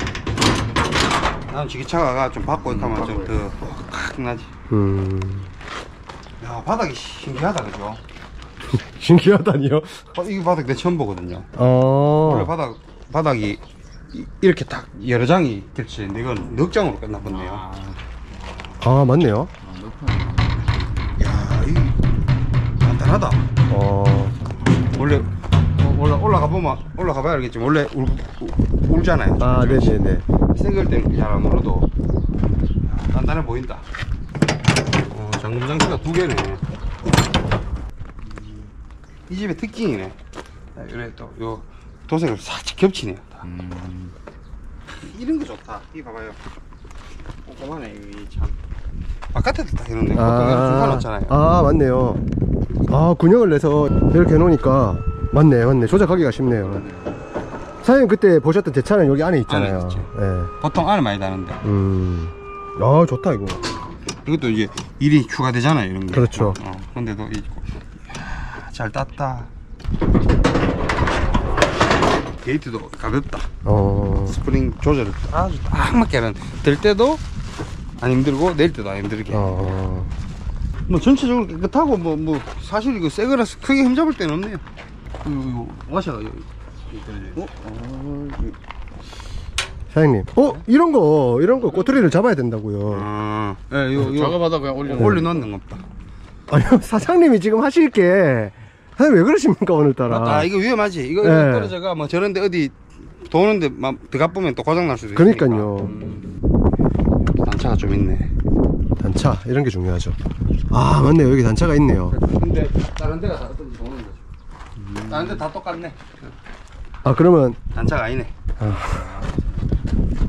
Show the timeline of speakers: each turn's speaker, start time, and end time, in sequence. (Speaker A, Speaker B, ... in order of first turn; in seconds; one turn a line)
Speaker A: 1.5-4.5
Speaker B: 2.6-3.3
Speaker C: 4.7-5.5
Speaker A: 6.4-8.0
Speaker C: 8.7-10.0
Speaker A: 10.1-11.5
Speaker C: 11.6-12.5
Speaker A: 12.2-13.6
Speaker A: 14.1-17.6
Speaker B: 17.2-18.0
Speaker C: 18.8-19.5
Speaker B: 19.6-21.1
Speaker A: 21.2-22.0
Speaker A: 22.8-23.4
Speaker C: 23.7-24.4
Speaker A: 24.9-31.9
Speaker C: 29.4-30.2
Speaker A: 32.8-33.8
Speaker A: 34.9-36.6
Speaker A: 39.3-40.2
Speaker A: 40.8-43.5
Speaker B: 43.5-44.1
Speaker A: 45.0-46.4
Speaker A: 47.5-48.6
Speaker A: 49.3-51.4
Speaker C: 50.1-52.2
Speaker C: 52.9-56.9
Speaker B: 56.8-57.0
Speaker C: 57.8-60.5
Speaker A: 59.5-60.1
Speaker A: 60.6-61.6
Speaker C: 61.6-63.6
Speaker A: 64.2-69.5
Speaker C: 66.1-66.6
Speaker A: 72.4-73.5
Speaker C: 73.7-74.4
Speaker A: 74.3-77.2
Speaker A: 78.0-79.7
Speaker C: 79.3-80.1
Speaker A: 80.9-84.6
Speaker A: 85.2-87.5
Speaker B: 87.3-88.6
Speaker C: 89.9-93.1
Speaker A: 92.9-95.8
Speaker B: 94.0-95.4
Speaker C: 94.9-95.2
Speaker C: 96.5-100.5
Speaker A: 100.1-106.4
Speaker C: 101.2-101.8
Speaker C: 105.2-106.0
Speaker A: 107.2-108.3
Speaker C: 109.0-110.2
Speaker C: 110.7-112.2
Speaker A: 112.1-114.2
Speaker B: 114.8-115.5
Speaker A: 115.0-116.3
Speaker C: 117.0-117.6
Speaker A: 117.7-118.3
Speaker C: 118.6-119.2
Speaker B: 118.7-119.8